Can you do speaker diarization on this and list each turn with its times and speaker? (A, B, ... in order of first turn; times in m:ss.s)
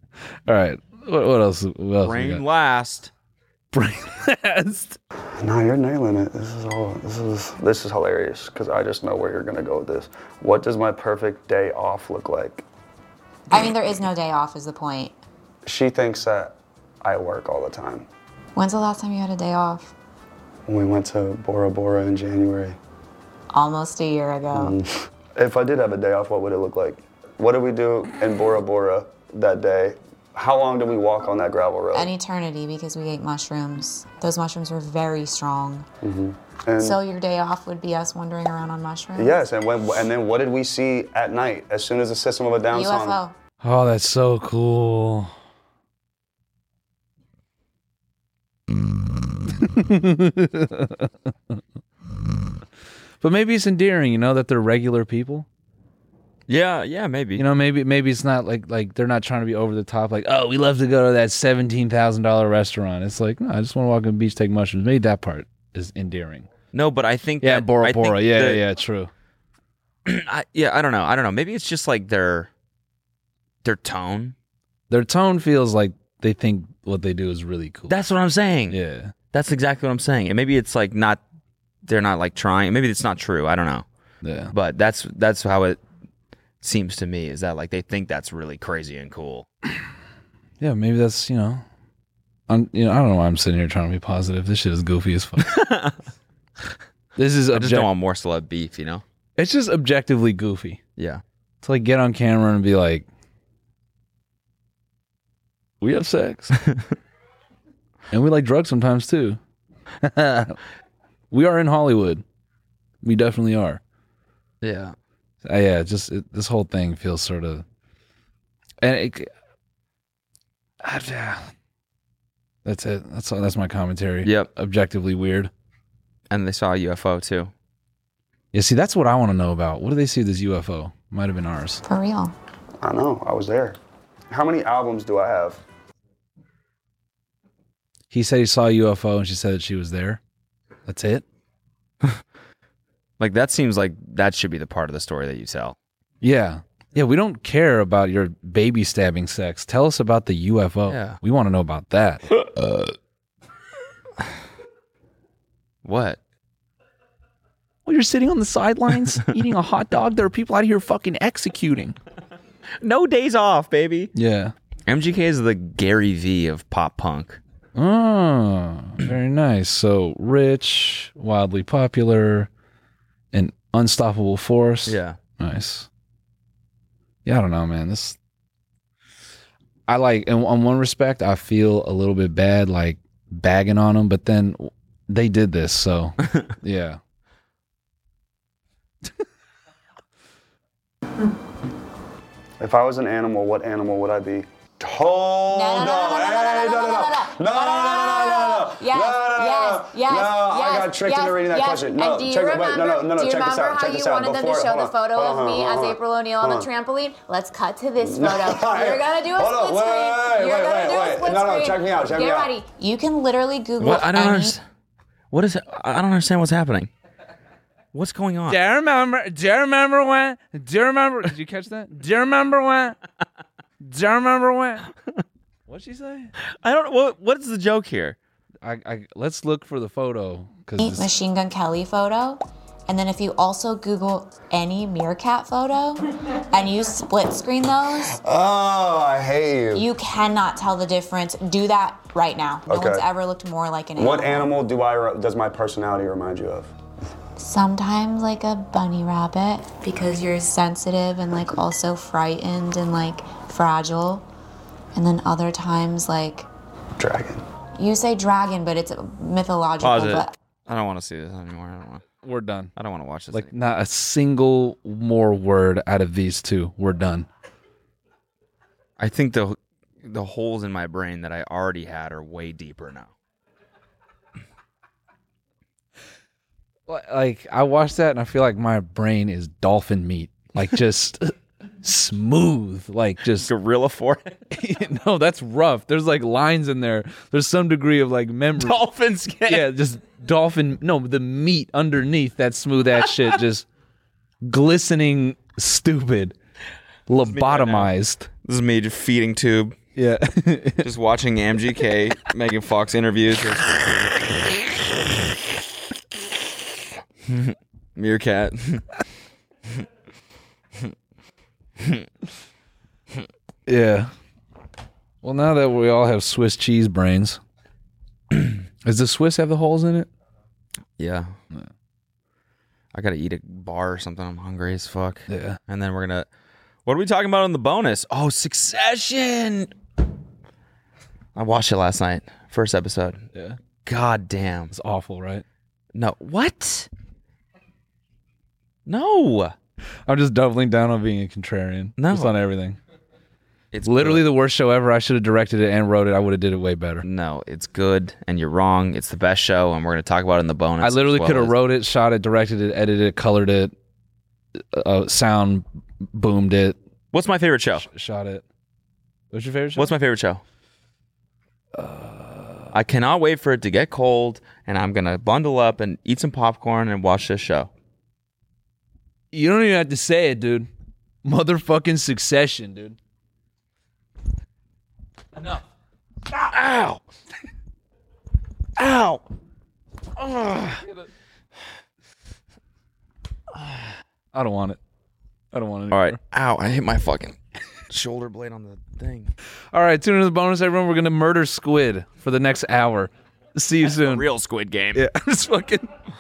0:00.5-0:02.4 A
0:02.0-0:03.1 B
0:03.7-0:05.0 A
0:05.4-0:12.6 C
0:13.5-0:15.2 D
0:15.7-0:18.1 C
0:18.6-0:19.9 D
0:20.7-0:22.8 C
0:23.5-0:24.8 D
0:24.5-0:32.1 C
0:31.9-0:35.9 D
0:36.0-0:37.0 C
0:36.8-0:39.4 D
0:39.2-0:43.2 C
0:42.7-0:43.4 D
0:43.6-0:45.3 A
0:49.5-0:51.6 A
0:53.2-0:55.5 A
0:56.5-0:57.4 B
0:57.4-1:06.5 A
1:06.7-1:08.6 B
1:07.4-1:09.1 A
1:10.1-1:12.5 B
1:13.6-1:14.4 B
1:14.9-1:18.0 A
1:17.9-1:18.8 B
1:18.7-1:19.1 A
1:19.3-1:21.2 B
1:21.9-1:23.8 B
1:24.2-1:24.5 A
1:24.5-1:25.8 B
1:26.6-1:29.5 B
1:30.6-1:31.6 A
1:32.5-1:35.6 A
1:35.4-1:36.0 B
1:37.2-1:37.9 A
1:37.5-1:39.0 B
1:39.4-1:40.8 A
1:41.0-1:41.2 B
1:41.6-1:43.1 A
1:45.8-1:46.6 A
1:48.1-1:49.4 A
1:50.0-1:50.6 A
1:51.3-1:52.2 A
1:53.0-1:53.8 A
1:54.6-1:55.0 B
1:55.4-1:57.6 A
1:58.8-1:59.3 A
2:00.8-2:01.4 A
2:02.6-2:05.5 A
2:04.2-2:04.5 B
2:06.3-2:07.5 B
2:08.5-2:11.8 A
2:11.8-2:12.3 D
2:12.8-2:13.8 C
2:14.3-2:15.6 C
2:18.1-2:20.2 A
2:20.9-2:21.2 A
2:23.2-2:25.8 B
2:26.2-2:32.3 A
2:30.9-2:31.2 B
2:32.3-2:32.9 B
2:35.8-2:36.2 B
2:37.8-2:42.0 A
2:42.8-2:44.1 B
2:44.2-2:44.5 A
2:44.9-2:47.4 B
2:47.8-2:52.5 A
2:53.3-2:55.9 A
2:54.9-2:55.2 B
2:57.2-2:58.2 A
2:59.9-3:07.0 A
3:12.6-3:26.7 C
3:15.5-3:34.6 D
3:28.0-3:32.6 C
3:33.8-3:34.6 B
3:35.3-3:36.9 B
3:37.9-3:38.6 B
3:38.5-3:43.0 A
3:43.8-3:44.9 A
3:45.7-3:46.3 A
3:46.5-3:48.2 B
3:48.6-3:51.1 A
3:50.8-3:58.2 D
3:58.1-3:59.9 C
3:59.8-4:04.5 D
4:02.7-4:03.1 C
4:04.0-4:06.7 C
4:07.4-4:14.3 D
4:14.9-4:16.5 D
4:17.0-4:17.4 C
4:17.8-4:20.3 D
4:19.8-4:22.0 B
4:22.2-4:22.7 A
4:22.8-4:23.5 B
4:23.3-4:27.3 A
4:29.0-4:33.1 B
4:36.9-4:43.5 A
4:43.4-4:44.4 B
4:44.5-4:48.8 A
4:48.6-4:49.7 B
4:49.5-4:53.7 A
4:54.4-4:56.4 A
4:57.1-4:58.3 A
4:57.2-4:57.9 B
4:58.4-4:59.8 B
5:00.0-5:00.9 A
5:00.8-5:04.0 B
5:07.2-5:09.0 B
5:13.7-5:14.1 A
5:15.2-5:17.4 A
5:18.8-5:20.1 A
5:21.0-5:21.3 B
5:22.9-5:26.3 B
5:25.3-5:25.6 A
5:26.8-5:29.7 B
5:31.4-5:33.2 B
5:33.8-5:34.7 B
5:34.7-5:35.4 A
5:36.0-5:36.9 B
5:38.9-5:39.5 B
5:40.1-5:42.8 A
5:42.0-5:42.4 B
5:43.7-5:44.2 B
5:43.8-5:47.0 A
5:47.0-5:51.6 B
5:50.8-5:53.7 A
5:54.6-5:56.8 A
5:57.1-5:57.9 B
5:57.8-5:58.4 A
5:59.3-5:59.9 A
5:59.8-6:00.4 B
6:01.8-6:02.7 A
6:02.7-6:07.7 B
6:09.3-6:10.7 A
6:11.2-6:13.0 A
6:16.3-6:17.0 B
6:18.8-6:19.2 B
6:20.2-6:20.8 B
6:24.3-6:24.8 A
6:25.5-6:26.2 A
6:25.9-6:27.4 B
6:27.9-6:29.3 B
6:29.7-6:34.3 A
6:33.8-6:35.0 B
6:34.9-6:35.9 A